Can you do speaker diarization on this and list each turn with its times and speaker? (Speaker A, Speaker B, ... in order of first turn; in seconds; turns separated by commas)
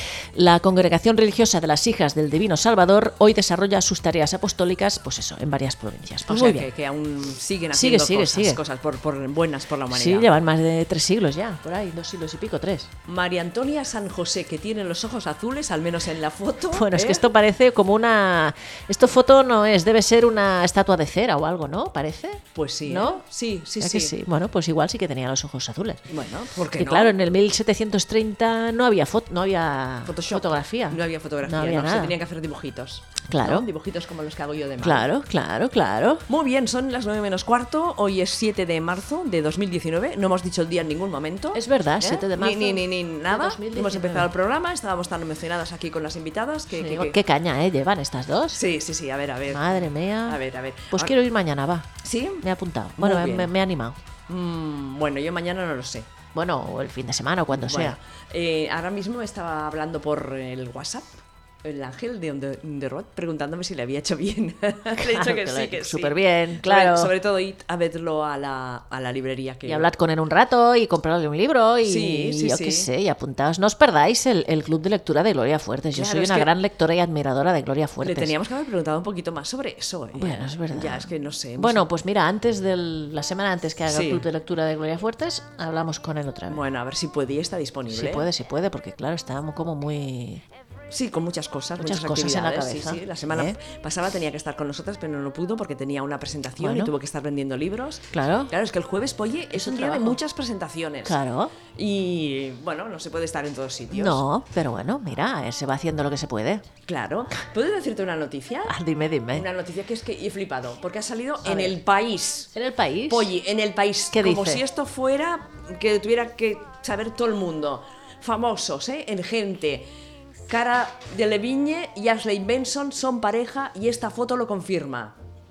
Speaker A: 0.3-6.7, Speaker B: 6.3-10.3, Speaker A: 7.7-8.6, Speaker A: 9.9-12.9, Speaker B: 13.1-17.3, Speaker A: 16.7-23.2, Speaker B: 22.6-24.1, Speaker A: 23.8-26.1, Speaker B: 26.1-27.1, Speaker A: 26.8-32.2, Speaker B: 30.1-35.1, Speaker A: 33.3-33.7, Speaker A: 34.8-36.3, Speaker B: 36.3-47.2, Speaker A: 41.5-44.3, Speaker A: 46.7-48.6, Speaker B: 48.5-51.1, Speaker A: 49.5-54.0, Speaker B: 52.0-52.4, Speaker B: 53.0-53.5, Speaker B: 54.3-56.1, Speaker A: 56.3-58.0, Speaker B: 57.5-69.8, Speaker A: 65.0-67.1, Speaker A: 69.7-78.3, Speaker B: 71.8-72.9, Speaker B: 75.9-76.5, Speaker B: 78.0-81.8, Speaker A: 80.2-86.6, Speaker B: 83.9-84.3, Speaker B: 86.5-88.3, Speaker A: 87.9-90.4, Speaker B: 90.9-101.2, Speaker A: 91.8-93.5, Speaker A: 96.6-96.9, Speaker A: 98.1-98.5, Speaker A: 99.5-100.2, Speaker A: 101.0-101.5, Speaker B: 101.8-104.2, Speaker A: 103.9-106.7, Speaker B: 106.9-108.7, Speaker A: 108.7-109.5, Speaker B: 109.3-112.5, Speaker A: 111.4-111.8, Speaker A: 112.5-113.3, Speaker B: 113.1-119.9, Speaker A: 114.1-114.6, Speaker B: 120.5-125.2